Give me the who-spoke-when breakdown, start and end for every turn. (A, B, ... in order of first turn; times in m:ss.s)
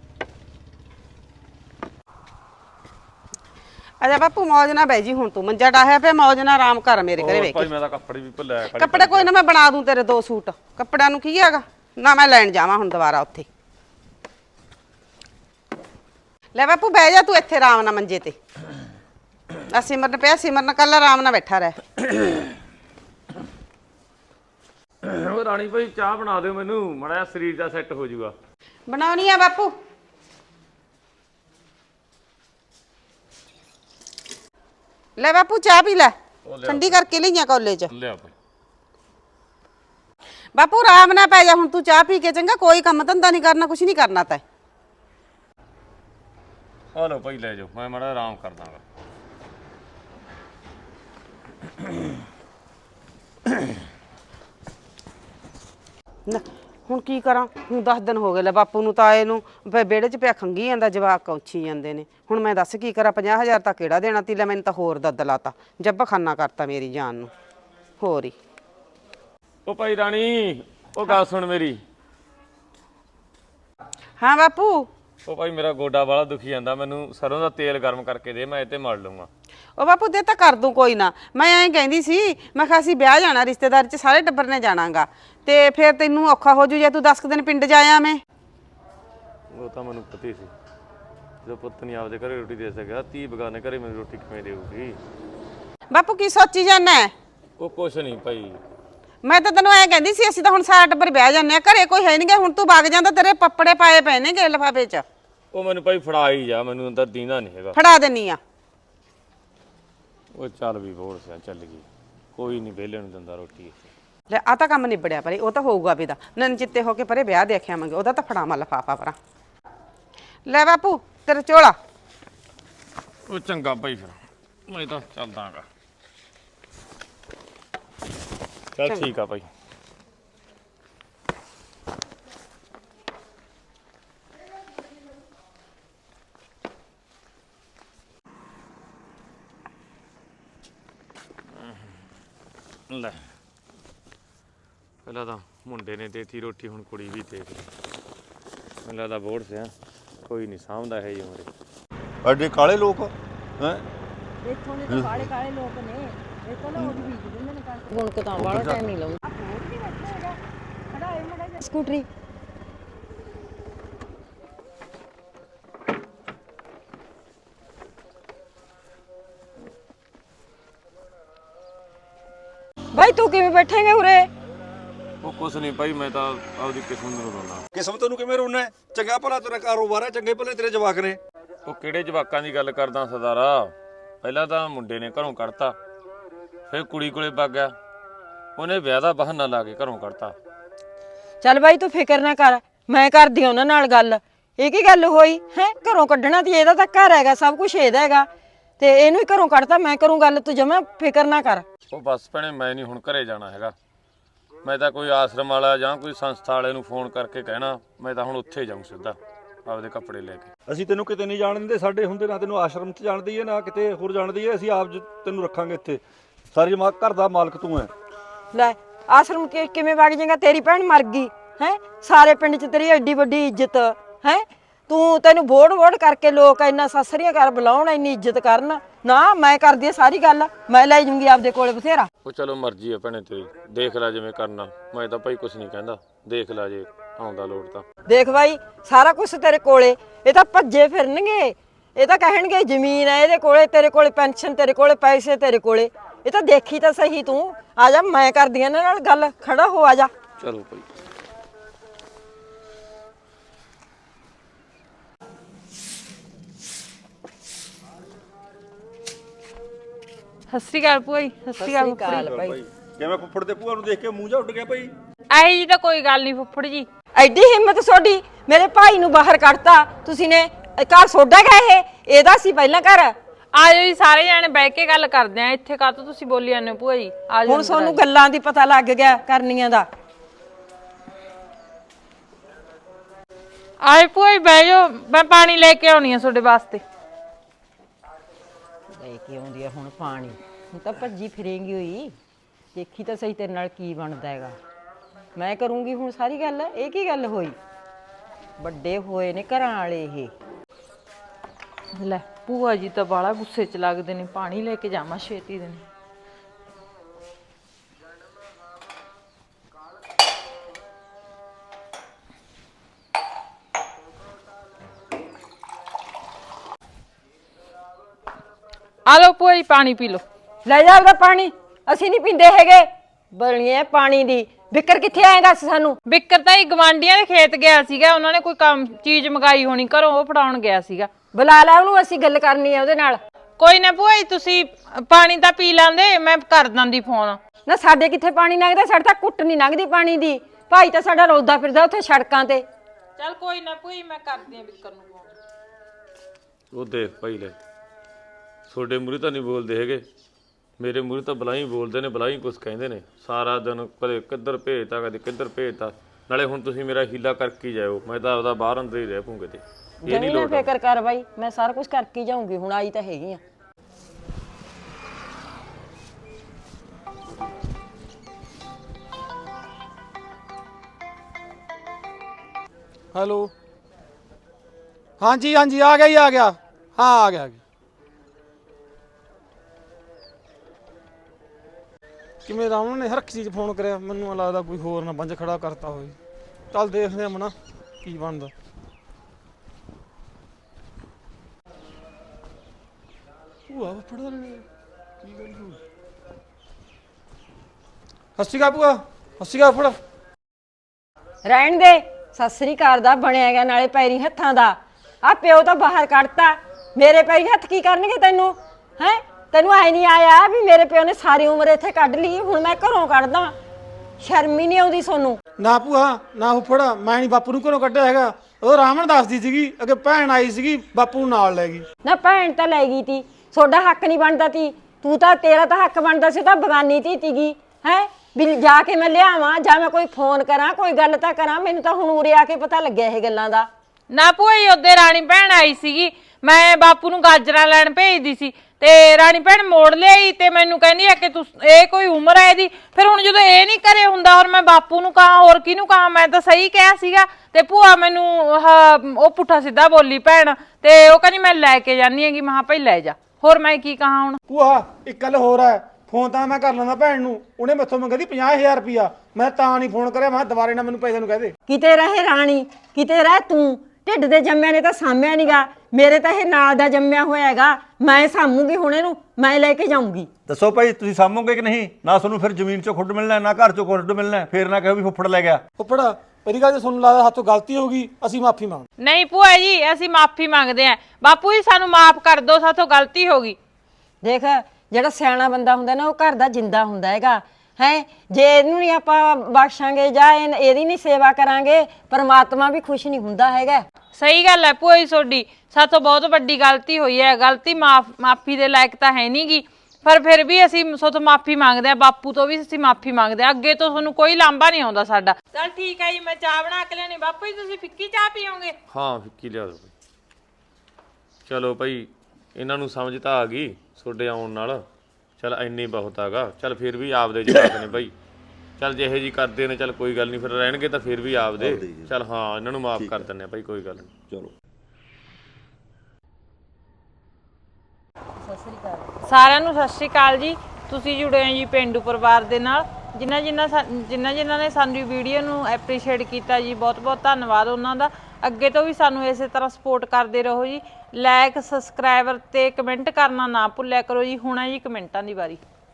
0:04.0-0:07.7 A
0:07.2-0:09.3 B
0:08.8-0:13.5 A
0:16.6-0:18.4 A
0:19.7-0:21.8 A
0:22.2-0:22.4 B
0:25.0-0:28.3 B
0:28.9-0:29.7 A
0:35.2-0:36.2 A
0:36.4-0:37.0 B
0:36.7-0:37.9 A
0:37.9-0:38.3 B
0:40.6-0:44.4 A
0:46.9-0:48.8 B
0:56.3-1:07.3 A
1:08.0-1:08.4 A
1:09.7-1:11.8 B
1:14.2-1:14.9 A
1:15.2-1:19.3 B
1:19.8-1:28.2 A
1:29.5-1:30.5 B
1:31.4-1:35.0 B
1:35.9-1:37.1 A
1:37.6-1:38.6 B
1:39.2-1:45.0 A
1:45.5-1:47.8 B
1:47.8-1:48.4 A
1:50.4-1:53.9 B
1:54.3-1:59.2 A
2:00.5-2:01.8 A
2:03.3-2:04.2 B
2:04.7-2:05.7 B
2:08.7-2:09.5 B
2:22.9-2:23.3 B
2:25.0-2:27.7 B
2:28.8-2:29.7 B
2:30.3-2:31.5 B
2:32.2-2:33.8 C
2:34.4-2:40.4 D
2:34.9-2:35.3 C
2:36.8-2:37.0 C
2:38.4-2:38.8 C
2:40.9-2:42.1 D
2:52.9-2:54.3 D
2:55.2-2:57.6 B
2:57.8-3:01.2 C
3:01.7-3:05.8 B
3:06.7-3:07.7 B
3:08.6-3:10.3 B
3:11.4-3:18.3 D
3:18.8-3:21.6 D
3:21.9-3:23.7 B
3:24.6-3:30.5 B
3:30.7-3:36.0 C
3:36.5-3:37.9 C
3:38.5-3:52.1 D
3:52.2-3:57.8 B
3:58.1-4:10.1 D
4:10.4-4:10.8 B
4:20.5-4:22.3 E
4:21.6-4:22.6 D
4:22.2-4:24.9 C
4:25.3-4:26.9 E
4:27.2-4:33.2 D
4:33.5-4:38.0 E
4:37.4-4:39.9 D
4:43.8-4:46.8 E
4:48.9-4:52.2 D
4:52.7-4:54.6 D
4:55.4-4:57.6 D
4:58.6-5:00.3 D
5:01.9-5:05.9 E
5:19.1-5:20.2 E
5:20.6-5:26.0 D
5:26.1-5:31.1 E
5:31.3-5:33.2 D
5:33.6-5:37.4 E
5:37.7-5:42.7 D
5:43.2-5:45.4 E
5:46.7-5:47.6 B
5:48.7-5:50.0 B
5:50.8-6:00.7 B
6:00.0-6:03.4 D
6:13.1-6:13.5 F
6:15.2-6:17.6 F
6:22.5-6:26.2 F
6:26.7-6:28.5 F
6:33.7-6:34.6 F
6:35.2-6:35.8 F
6:38.4-6:40.0 F
6:41.4-6:53.6 D
6:54.2-6:55.4 D
6:55.6-7:01.8 F
7:02.0-7:13.7 D
7:14.1-7:34.4 E
7:34.5-7:41.5 F
7:41.7-7:50.3 D
7:50.5-7:55.6 C
7:55.8-7:58.9 F
7:59.0-8:03.6 E
8:04.2-8:13.8 D
8:14.2-8:28.8 E
8:28.9-8:29.9 B
8:31.5-8:34.8 B
8:35.4-8:38.1 B
8:38.8-8:44.1 B
8:41.6-8:42.1 C
8:43.0-8:43.3 C
8:48.4-8:49.1 D
8:49.2-9:05.6 E